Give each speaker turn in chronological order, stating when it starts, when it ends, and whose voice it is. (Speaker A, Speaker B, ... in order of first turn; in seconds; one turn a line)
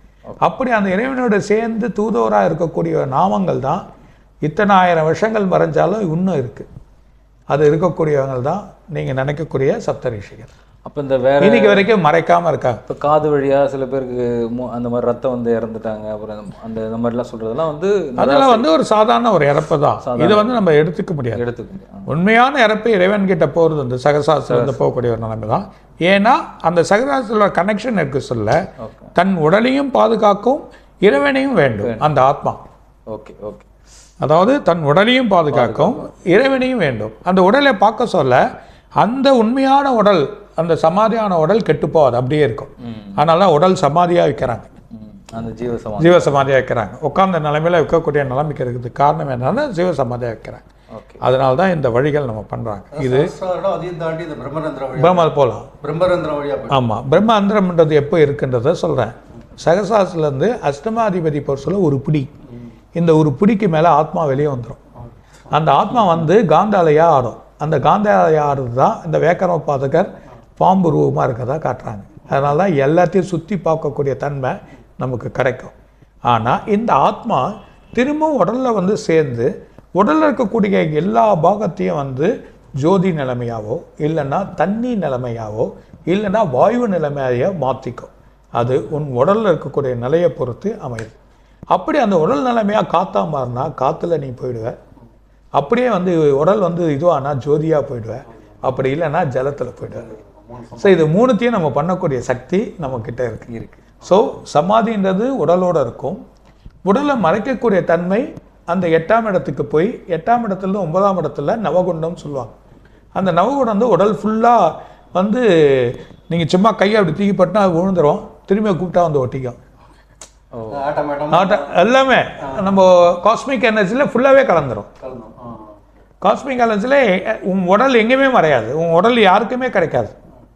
Speaker A: 0.4-3.8
Speaker A: 4.4-6.7
Speaker A: 7.5-10.5
Speaker B: 10.9-11.9
Speaker A: 11.4-12.8
Speaker B: 12.9-18.7
Speaker A: 18.2-21.4
Speaker B: 20.0-20.6
Speaker B: 21.4-22.1
Speaker A: 22.1-28.6
Speaker B: 24.5-24.8
Speaker B: 28.8-29.1
Speaker A: 29.1-32.6
Speaker B: 33.1-33.7
Speaker A: 34.2-38.4
Speaker B: 35.5-36.1
Speaker A: 39.0-44.7
Speaker B: 42.8-43.2
Speaker B: 44.9-46.5
Speaker A: 46.0-50.6
Speaker B: 50.9-51.2
Speaker A: 51.2-53.3
Speaker C: 52.9-55.3
Speaker A: 55.0-55.7
Speaker C: 55.8-56.8
Speaker A: 56.7-62.3
Speaker A: 63.0-64.8
Speaker A: 65.5-75.7
Speaker A: 76.3-91.2
Speaker A: 91.7-94.8
Speaker A: 95.6-100.1
Speaker C: 100.1-101.0
Speaker A: 100.8-103.5
Speaker B: 103.5-103.9
Speaker A: 104.0-106.2
Speaker A: 106.8-112.6
Speaker A: 113.2-119.6
Speaker B: 120.5-120.9
Speaker C: 120.7-121.8
Speaker A: 121.3-124.9
Speaker C: 122.4-122.8
Speaker C: 125.0-125.8
Speaker A: 126.2-130.1